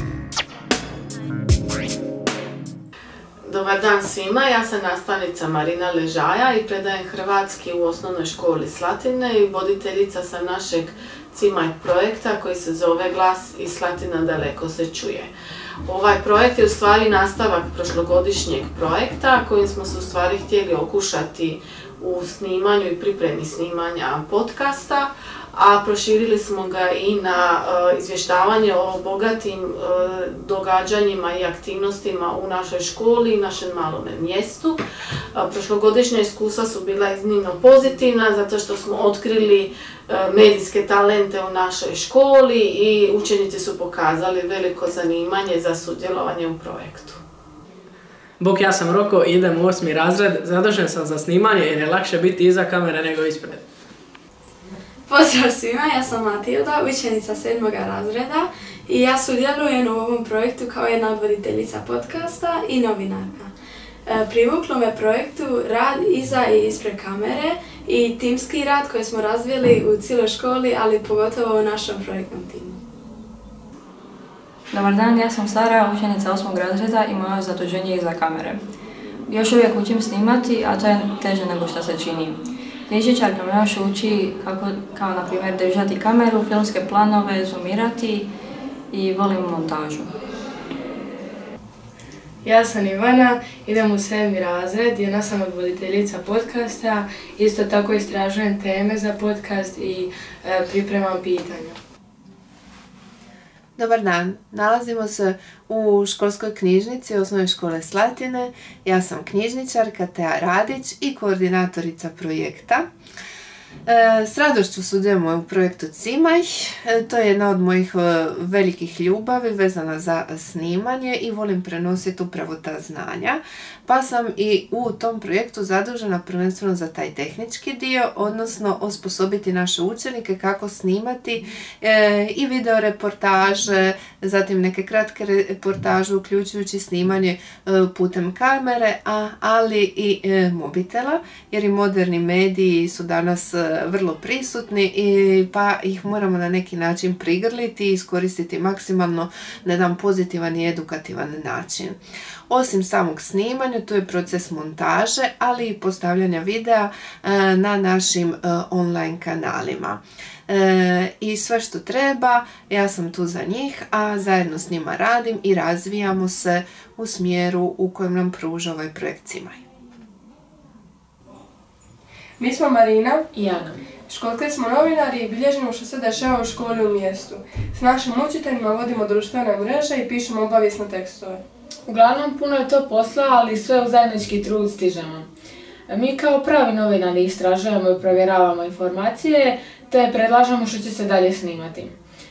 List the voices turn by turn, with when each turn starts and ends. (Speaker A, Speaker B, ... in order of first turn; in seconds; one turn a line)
Speaker A: 3.5-15.3
Speaker A: 15.9-34.8
Speaker A: 35.4-47.2
Speaker B: 48.4-53.6
Speaker C: 55.1-63.5
Speaker C: 64.0-72.8
Speaker D: 74.7-78.6
Speaker D: 79.3-88.3
Speaker D: 88.9-90.1
Speaker E: 92.4-101.8
Speaker F: 103.8-112.9
Speaker F: 113.9-152.0
Speaker F: 152.5-169.6
Speaker G: 172.4-173.3
Speaker H: 173.3-173.8
Speaker G: 174.1-181.4
Speaker H: 181.9-185.3
Speaker H: 185.9-191.9